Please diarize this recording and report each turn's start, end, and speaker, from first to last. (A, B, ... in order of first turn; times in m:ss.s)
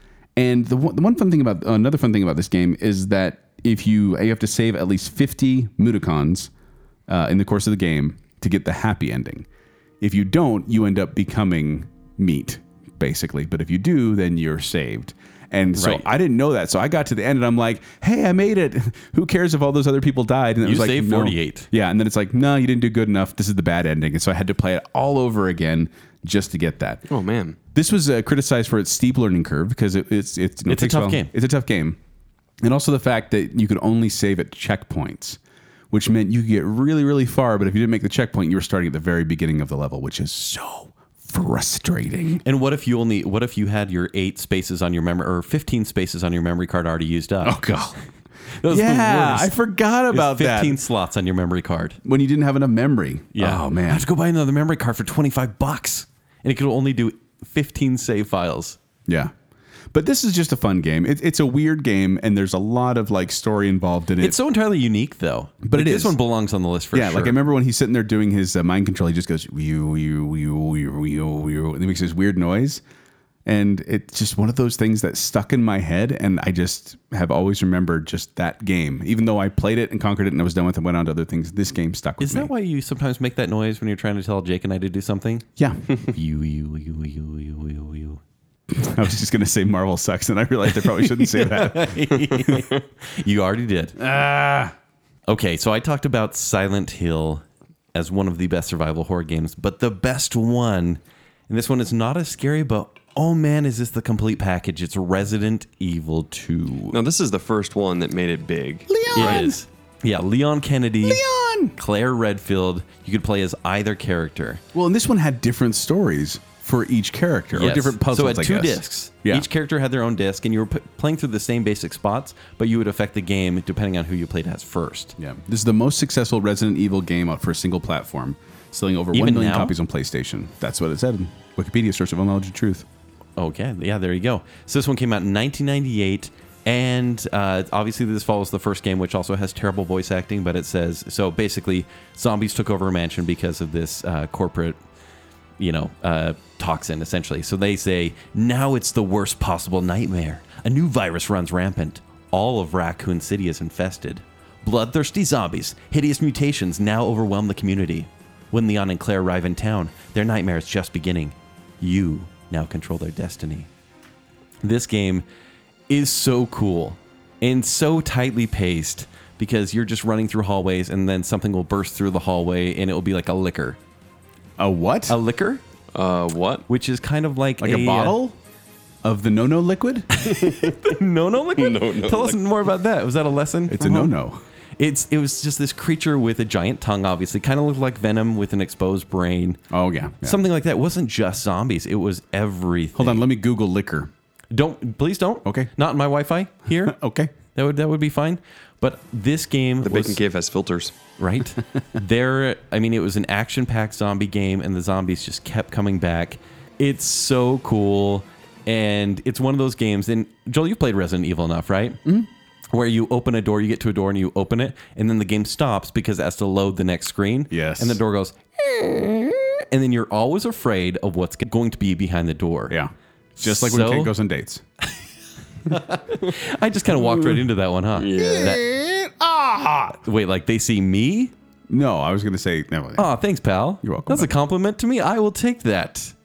0:00.4-0:06.5 A
0:07.1-0:09.5 A
0:10.0-0:27.0 A
0:15.8-0:16.0 B
0:20.6-0:21.7 B
0:27.1-0:27.6 C
0:27.7-0:32.0 A
0:30.7-0:31.3 B
0:32.6-0:35.4 A
0:35.9-0:42.4 A
0:42.4-0:47.6 B
0:47.4-0:48.0 A
0:48.6-0:49.6 B
0:48.6-0:50.8 A
0:50.1-0:52.0 B
0:52.0-0:54.0 A
0:53.3-0:58.8 B
0:59.1-0:59.3 A
0:59.9-1:04.4 A
1:04.2-1:07.4 B
1:05.6-1:06.2 A
1:06.9-1:12.8 A
1:13.4-1:22.5 A
1:22.2-1:25.4 B
1:25.6-1:25.8 A
1:26.0-1:28.2 B
1:28.7-1:32.2 A
1:31.0-1:34.0 B
1:34.0-1:34.7 A
1:35.3-1:47.0 B
1:46.9-1:49.5 C
1:48.9-1:49.6 A
1:49.1-1:51.2 B
1:51.0-1:51.8 A
1:51.8-1:54.6 B
1:54.7-1:59.5 A
1:57.5-2:05.1 B
2:05.2-2:12.8 A
2:09.1-2:09.7 B
2:13.4-2:24.8 B
2:25.6-2:43.7 B
2:44.6-2:45.2 B
2:45.9-2:53.8 B
2:54.6-2:55.2 A
2:55.1-2:55.6 B
2:55.9-2:56.6 C
2:56.7-2:58.2 B
2:57.6-2:58.4 A
2:59.0-3:00.2 A
3:00.1-3:04.2 B
3:00.3-3:00.8 C
3:01.5-3:02.4 C
3:03.7-3:04.4 A
3:04.8-3:09.6 B
3:09.7-3:10.4 A
3:10.2-3:13.2 B
3:13.0-3:14.1 A
3:14.5-3:17.0 B
3:15.4-3:15.7 A
3:16.8-3:17.3 A
3:17.5-3:20.2 B
3:19.8-3:20.9 C
3:21.2-3:32.0 B
3:32.7-3:42.8 B
3:37.5-3:38.0 A
3:42.7-3:44.6 A
3:43.4-3:44.1 B
3:45.6-3:48.6 B
3:47.9-3:48.6 C
3:48.1-3:50.0 A
3:50.0-3:51.3 B
3:51.7-3:53.1 A
3:53.0-3:56.1 B
3:53.8-3:54.3 A